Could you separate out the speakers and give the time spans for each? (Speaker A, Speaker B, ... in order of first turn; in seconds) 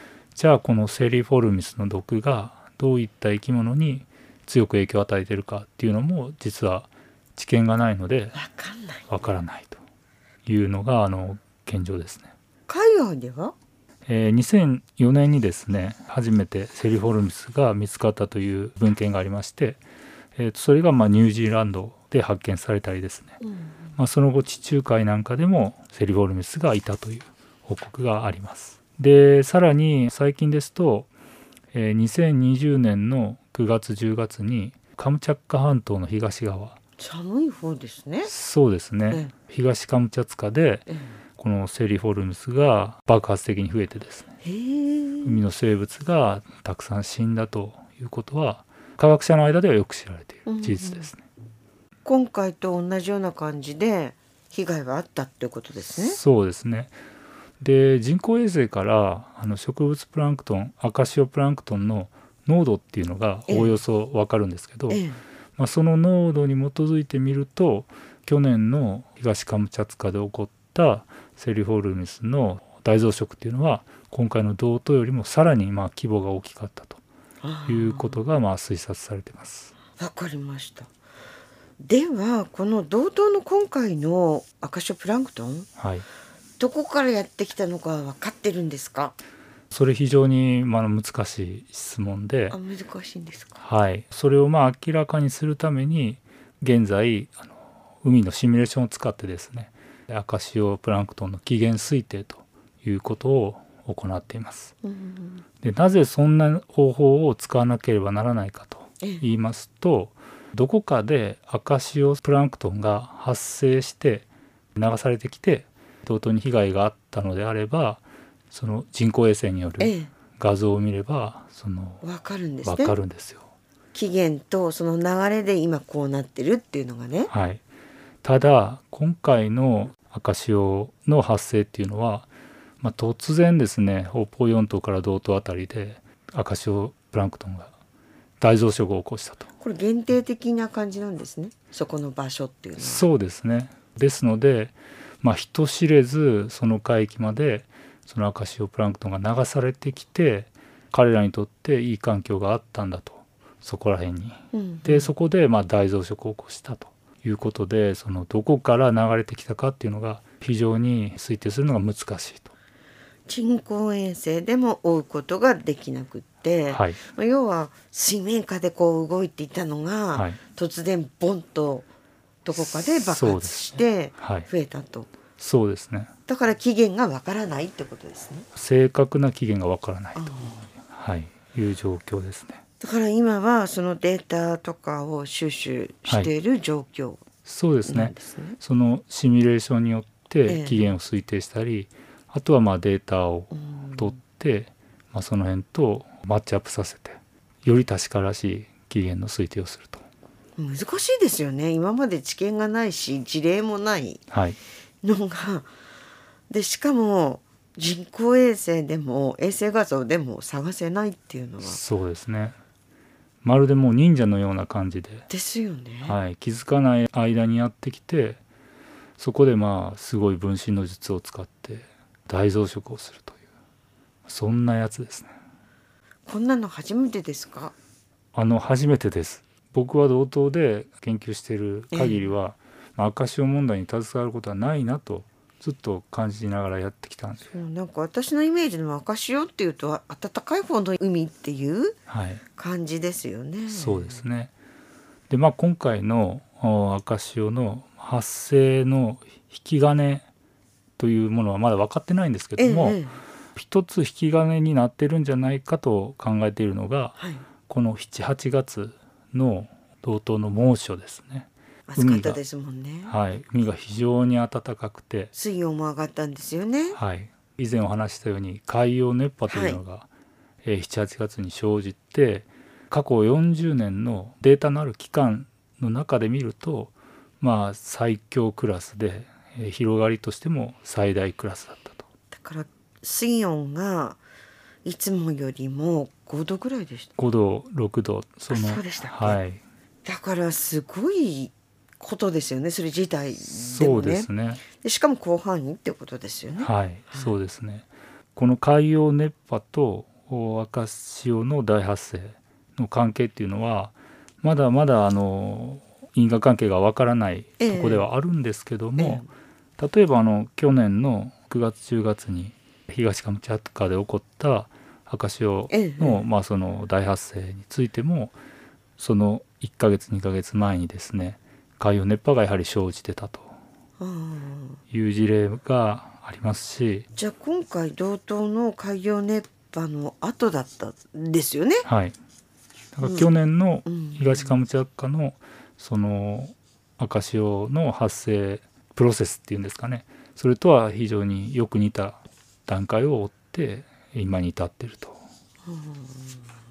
Speaker A: 0.3-8.3, 9.1-9.8, 10.4-12.3, 14.1-19.8, 20.4-23.4, 23.9-31.1, 31.7-36.8, 38.2-44.2, 45.2-51.2, 56.0-56.9, 57.6-65.0, 65.6-77.0, 77.7-79.7, 85.8-86.0, 89.7-92.6, 93.6-104.7, 105.6-122.0, 122.6-123.5, 127.3-127.6, 128.2-132.3, 132.8-137.7, 138.4-139.5, 142.8-162.5, 166.7-167.0, 170.1-170.4, 172.6-174.5, 175.4-176.1, 178.5-182.6, 187.4-200.0, 204.3-204.6, 211.6-212.6, 213.4-215.2, 216.0-218.4, 219.2-223.4, 224.2-225.3, 228.3-237.5, 242.1-242.4, 243.7-244.5, 245.3-250.3, 251.0-253.0, 253.5-262.4, 263.1-265.3, 266.9-270.1, 270.6-282.1, 287.2-289.6, 293.4-294.6, 296.6-309.2, 309.8-318.3, 319.0-323.5, 324.9-327.1, 331.8-332.1, 332.9-345.2
Speaker B: 8.3-9.1, 12.7-13.5, 23.4-23.9, 37.0-38.3, 40.9-41.1, 44.4-45.4, 50.5-51.1, 52.0-56.2, 63.5-63.8, 64.9-65.2, 77.4-78.2, 80.0-80.9, 81.8-85.7, 86.6-89.2, 92.5-93.6, 104.8-105.4, 119.8-120.1, 122.0-123.0, 123.9-127.3, 139.6-143.1, 154.5-155.1, 163.3-171.9, 172.4-175.1, 176.3-178.5, 180.2-180.7, 182.8-187.2, 187.8-188.6, 190.5-190.8, 193.5-194.2, 200.6-204.2, 205.0-205.7, 206.5-211.8, 215.3-216.2, 226.3-227.7, 231.9-232.3, 237.5-242.0, 242.6-244.2, 252.6-253.2, 257.2-257.4, 261.9-263.1, 265.3-267.0, 269.5-269.8, 282.3-284.2, 284.8-287.1, 288.5-289.4, 290.0-297.3, 307.6-308.1, 309.0-309.3, 315.7-316.2, 324.0-324.8, 327.1-331.9, 333.0-333.3, 333.9-334.6, 345.6-346.4